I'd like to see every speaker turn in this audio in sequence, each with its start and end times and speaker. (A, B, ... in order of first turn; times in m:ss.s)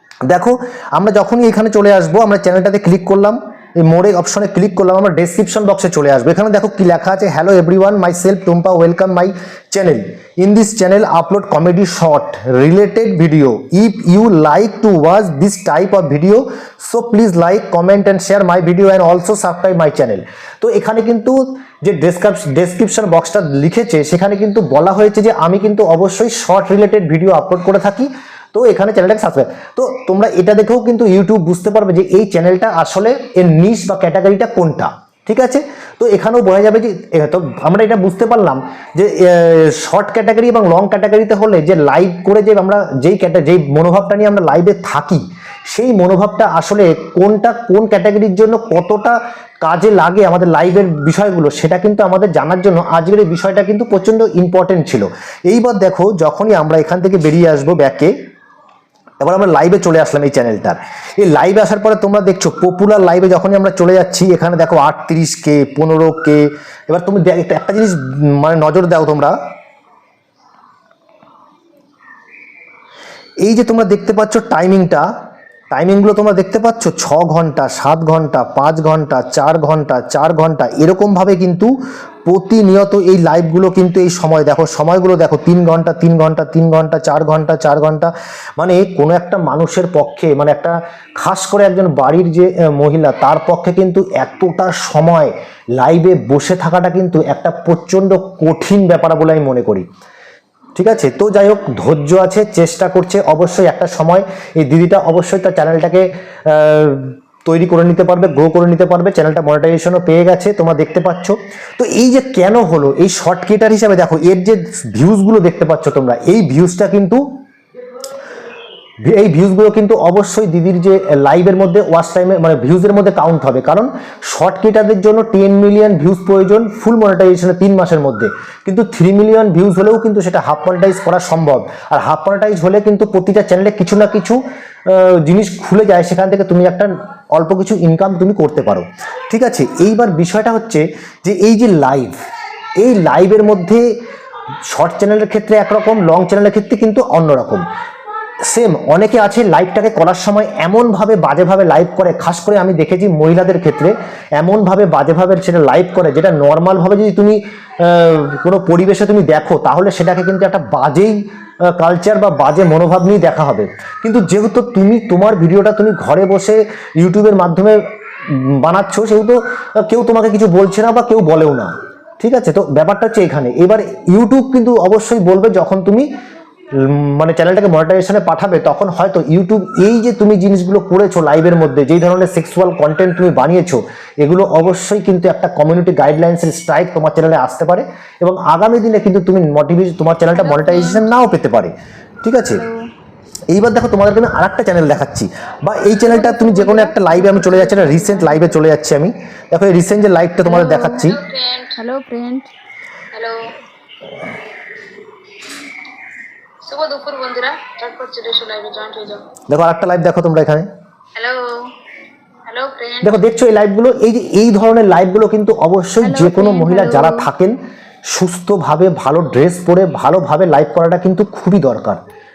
0:00.3-0:58.1 A
0:59.2-1:09.4 A
1:13.4-1:15.1 A
1:15.7-1:21.7 A
1:22.3-1:39.9 A
1:40.8-1:57.2 A
1:59.0-2:22.2 A
2:22.8-2:23.8 A
2:24.7-2:27.6 A
2:28.5-2:56.1 A
2:56.8-3:11.7 A
3:10.3-3:11.1 B
3:12.2-3:12.6 A
3:13.5-3:21.2 A
3:16.0-3:18.6 B
3:20.5-3:21.1 B
3:21.0-3:21.8 C
3:21.8-3:22.5 B
3:23.1-3:23.4 C
3:26.6-3:29.2 C
3:29.5-3:30.7 A
3:31.2-3:31.7 C
3:32.5-3:33.2 C
3:33.0-3:37.6 A
3:36.0-3:37.3 B
3:38.1-3:42.0 A